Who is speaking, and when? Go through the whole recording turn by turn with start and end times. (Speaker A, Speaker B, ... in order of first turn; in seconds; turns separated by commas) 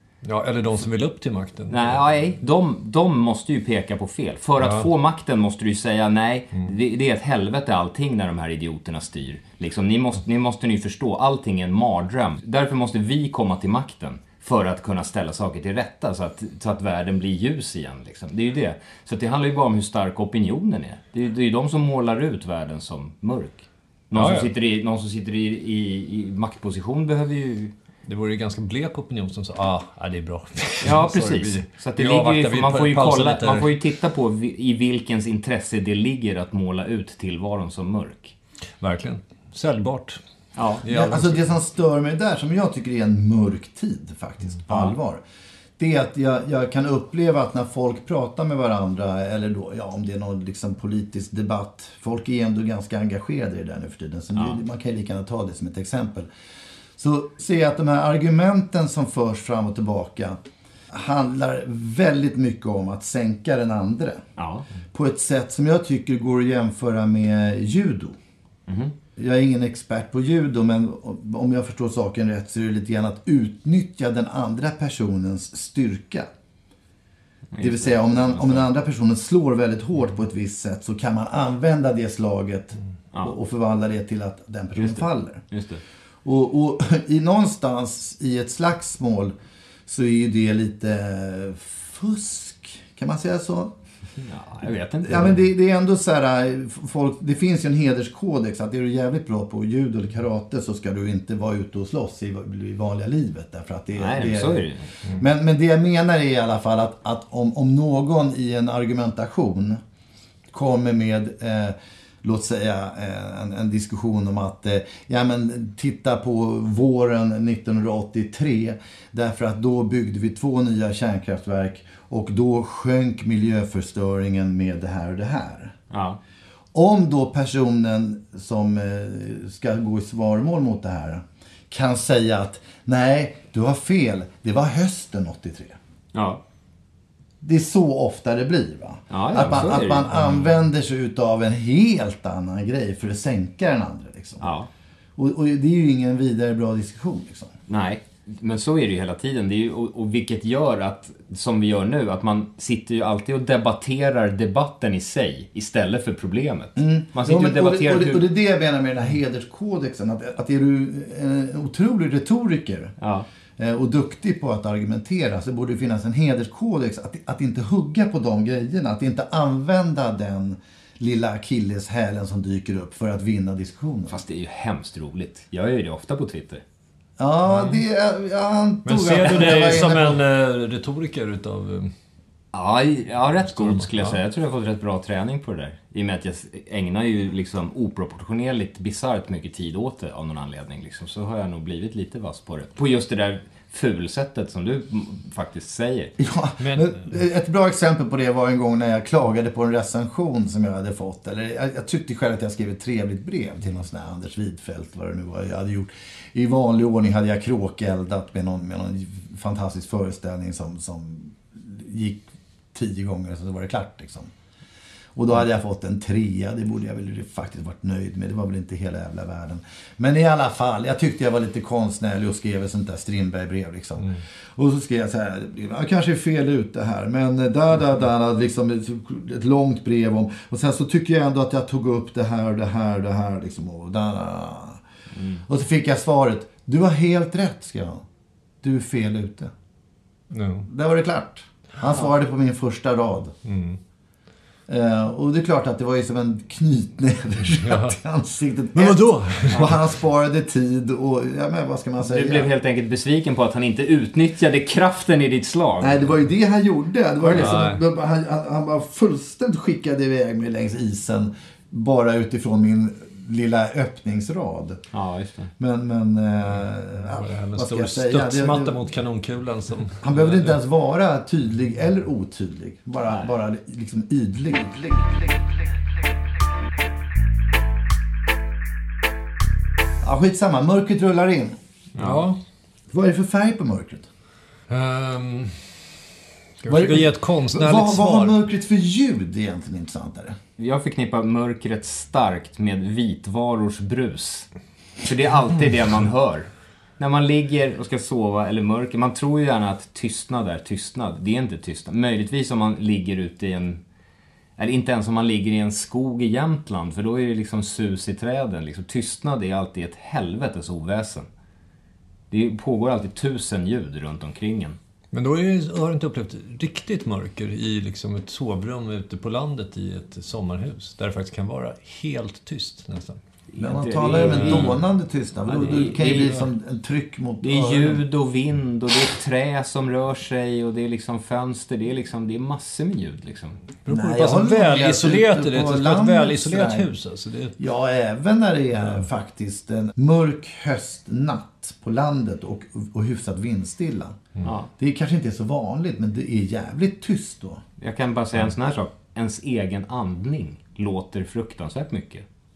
Speaker A: 0.2-2.1, Speaker B: 1.7-27.7, Speaker A: 4.6-4.9, Speaker A: 24.1-24.5, Speaker A: 28.0-33.7, Speaker B: 30.8-38.3, Speaker A: 38.8-40.2, Speaker B: 40.5-40.8, Speaker A: 40.8-41.4, Speaker C: 40.9-45.2, Speaker B: 44.7-44.9, Speaker C: 45.8-56.3, Speaker B: 54.3-54.6, Speaker C: 57.0-60.4, Speaker C: 60.9-64.2, Speaker B: 64.4-64.7, Speaker C: 64.9-68.2, Speaker B: 68.7-68.9, Speaker C: 69.2-76.3, Speaker B: 77.5-78.7, Speaker C: 77.6-85.4, Speaker B: 84.8-85.8, Speaker C: 86.2-89.3, Speaker C: 89.9-93.7, Speaker B: 94.2-95.4, Speaker C: 95.0-109.8, Speaker B: 104.0-104.9, Speaker C: 110.5-125.7, Speaker B: 125.9-126.2, Speaker C: 126.7-135.8, Speaker B: 136.1-136.4, Speaker C: 137.4-144.5, Speaker B: 139.1-140.1, Speaker B: 144.4-144.7, Speaker C: 145.2-147.5, Speaker B: 147.7-158.3, Speaker C: 156.8-162.9, Speaker B: 163.0-163.3, Speaker C: 163.6-174.2, Speaker B: 174.1-176.6, Speaker C: 177.2-180.2, Speaker A: 177.5-177.8, Speaker A: 178.8-181.9, Speaker B: 182.5-196.1, Speaker A: 183.5-184.2, Speaker C: 196.2-214.3, Speaker A: 196.6-197.1, Speaker C: 215.2-234.8, Speaker B: 235.1-235.4, Speaker C: 235.4-238.0, Speaker C: 238.6-239.5, Speaker A: 240.3-240.7, Speaker C: 240.7-243.3, Speaker A: 243.4-243.8, Speaker C: 244.7-252.5, Speaker A: 247.6-247.9, Speaker A: 248.7-249.7, Speaker B: 252.1-256.1, Speaker C: 255.8-264.8, Speaker B: 257.2-257.5, Speaker A: 257.4-257.8, Speaker B: 264.9-265.5, Speaker C: 265.6-268.9, Speaker A: 267.1-270.6, Speaker C: 270.0-275.4, Speaker C: 280.0-281.6, Speaker A: 282.0-282.4, Speaker B: 282.0-282.2, Speaker C: 282.9-284.1, Speaker A: 284.7-285.7, Speaker A: 286.6-288.4, Speaker C: 286.6-290.4, Speaker B: 290.6-294.5, Speaker B: 295.0-303.8, Speaker B: 304.6-311.3, Speaker B: 312.3-314.8, Speaker A: 315.1-323.2, Speaker B: 323.5-324.8, Speaker C: 323.6-328.0, Speaker A: 324.1-324.8, Speaker B: 325.5-326.3, Speaker A: 325.6-326.4, Speaker B: 327.4-333.6, Speaker A: 333.9-337.6, Speaker C: 333.9-336.9, Speaker C: 337.6-344.2, Speaker B: 344.4-344.7, Speaker C: 344.8-347.6, Speaker B: 347.8-352.2